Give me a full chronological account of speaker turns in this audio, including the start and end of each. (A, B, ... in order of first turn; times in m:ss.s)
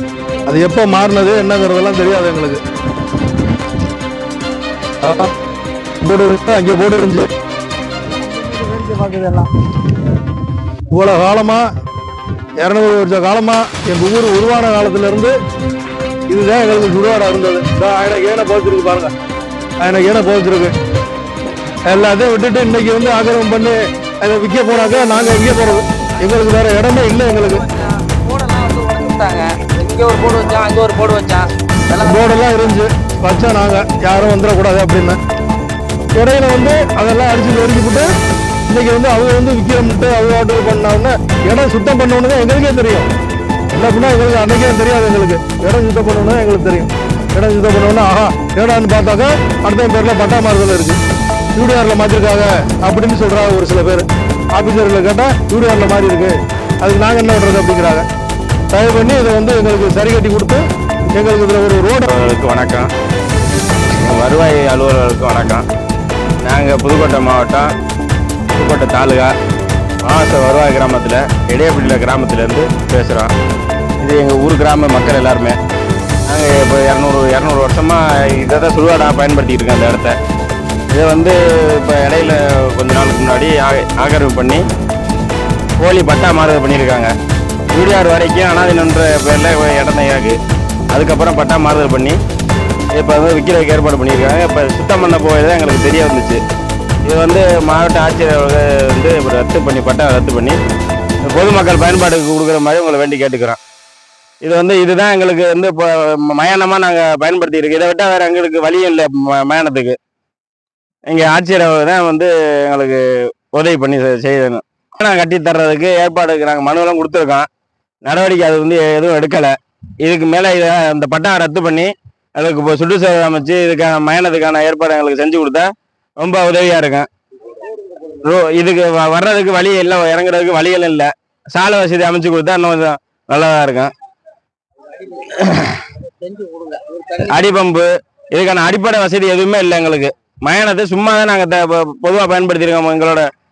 0:00.5-0:02.6 A
0:05.0-0:05.3 A
0:06.0-0:07.3 A
0:08.2-0:09.5 B
0:10.9-0:11.6 A
0:12.6-0:15.3 A
0:16.3-0:19.1 A
0:19.8-0:20.7 A
0:21.9-0:27.7 A
0:27.5-0:32.2 B
0:32.0-0:35.2 A
0:36.2-0:38.1 A
0:38.7-0:43.1 A
0:43.7-0:51.0 A
0:51.6-0:58.1 A
0:58.7-1:00.6 A
1:01.2-1:02.1 A
1:02.1-1:02.9 C
1:04.0-1:05.6 C
1:06.4-1:07.7 C
1:08.5-1:09.3 C
1:10.0-1:13.3 C
1:14.0-1:15.6 C
1:16.3-1:20.2 C
1:20.9-1:24.6 C
1:25.8-1:27.1 C
1:27.7-1:30.4 C
1:30.9-1:32.2 C
1:33.0-1:36.4 C
1:37.1-1:40.6 C
1:41.2-1:43.6 C
1:44.4-1:50.0 C
1:51.1-1:57.5 C
1:58.0-2:07.1 C
2:07.7-2:08.2 B
2:08.2-2:13.9 C
2:14.9-2:15.3 B
2:15.3-2:15.8 C
2:16.1-2:17.3 B
2:17.2-2:23.3 C